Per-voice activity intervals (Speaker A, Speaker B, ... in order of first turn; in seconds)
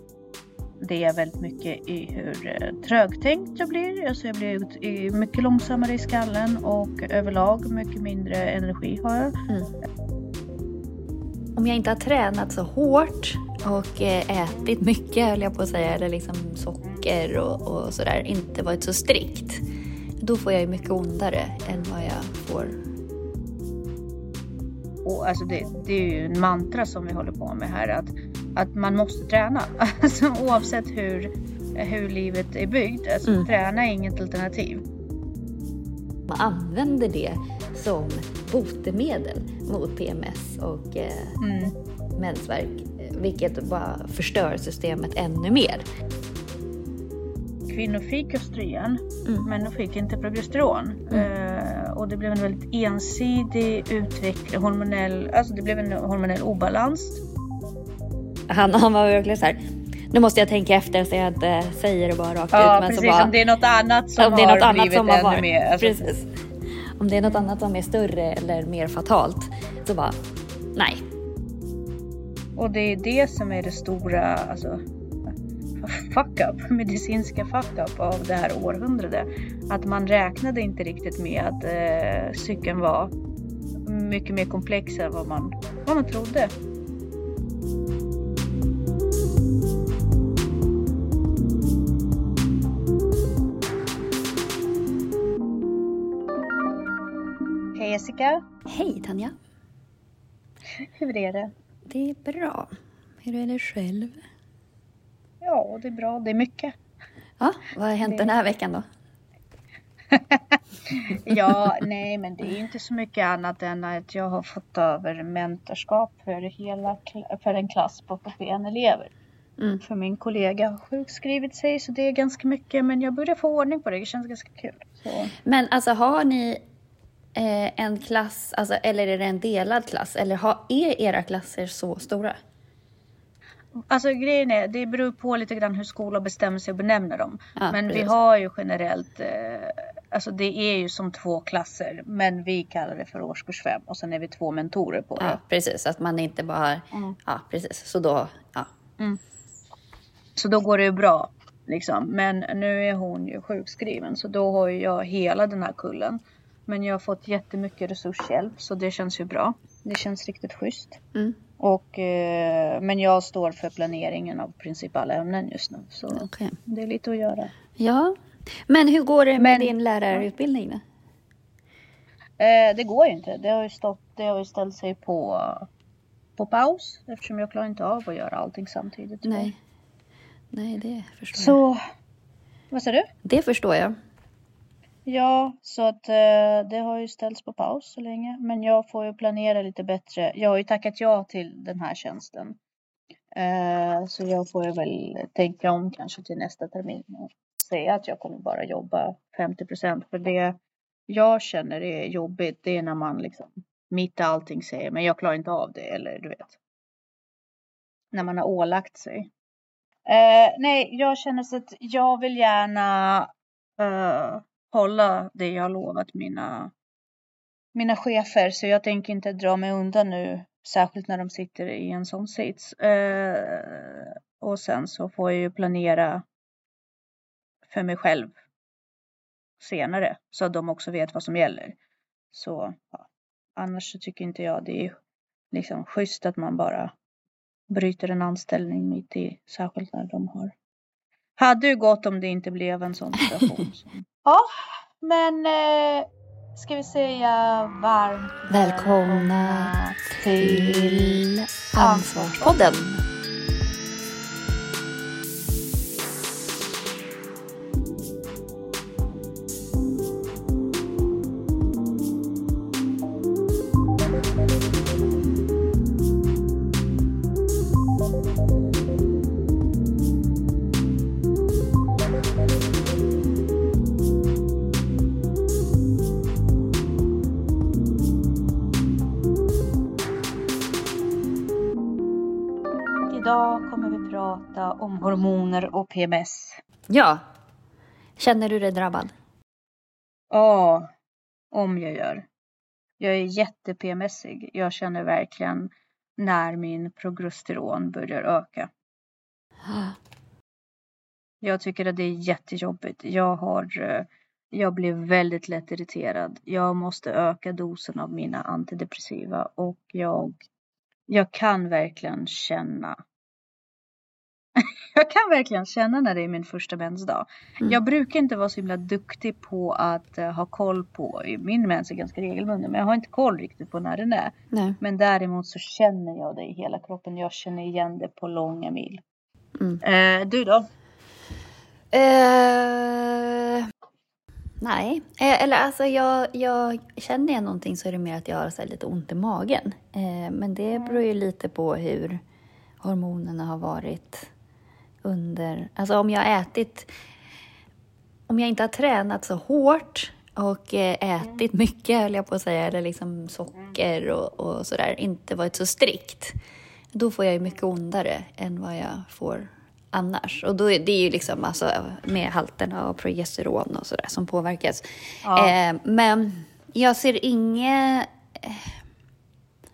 Speaker A: 0.8-9.3, 25.0-34.8, 41.4-41.7, 47.7-57.2, 62.5-66.0, 72.5-74.8, 75.8-83.1, 83.8-86.5, 97.7-98.4, 100.8-101.5, 105.4-106.7, 108.0-108.3, 110.1-119.1, 119.8-125.3, 133.9-145.4, 150.4-161.0, 161.6-167.5, 169.4-170.2, 172.4-175.7, 176.4-179.5, 181.3-181.8, 182.7-183.0, 185.1-192.6, 193.3-206.6, 208.1-209.3, 210.1-216.7, 217.7-226.2, 227.7-228.3, 229.6-231.8, 232.3-234.9, 235.5-236.9, 237.7-240.5, 241.4-244.5, 245.0-251.2, 251.8-252.8, 283.1-286.6, 290.3-290.9, 291.5-292.3, 293.0-298.7, 301.4-310.4, 311.1-313.0, 314.6-329.0, 329.8-330.6, 365.2-365.5
Speaker B: 11.6-19.6, 20.2-22.8, 36.3-41.4, 42.2-45.8, 58.5-59.6, 60.1-63.3, 64.2-66.3, 67.0-70.2, 70.8-71.0, 98.7-99.3, 101.9-104.2, 107.4-108.8, 111.3-111.7, 125.4-126.6, 127.3-132.4, 137.6-138.1, 145.2-148.7, 166.1-166.6, 167.8-168.2, 168.7-170.8, 179.2-179.6, 180.5-181.6, 183.2-183.9, 243.2-243.7, 248.5-253.0, 286.9-287.2, 288.2-289.1, 299.6-300.0, 324.5-324.8, 331.9-333.7, 334.6-342.2, 342.8-344.3, 345.0-346.9, 348.3-356.3, 356.9-368.7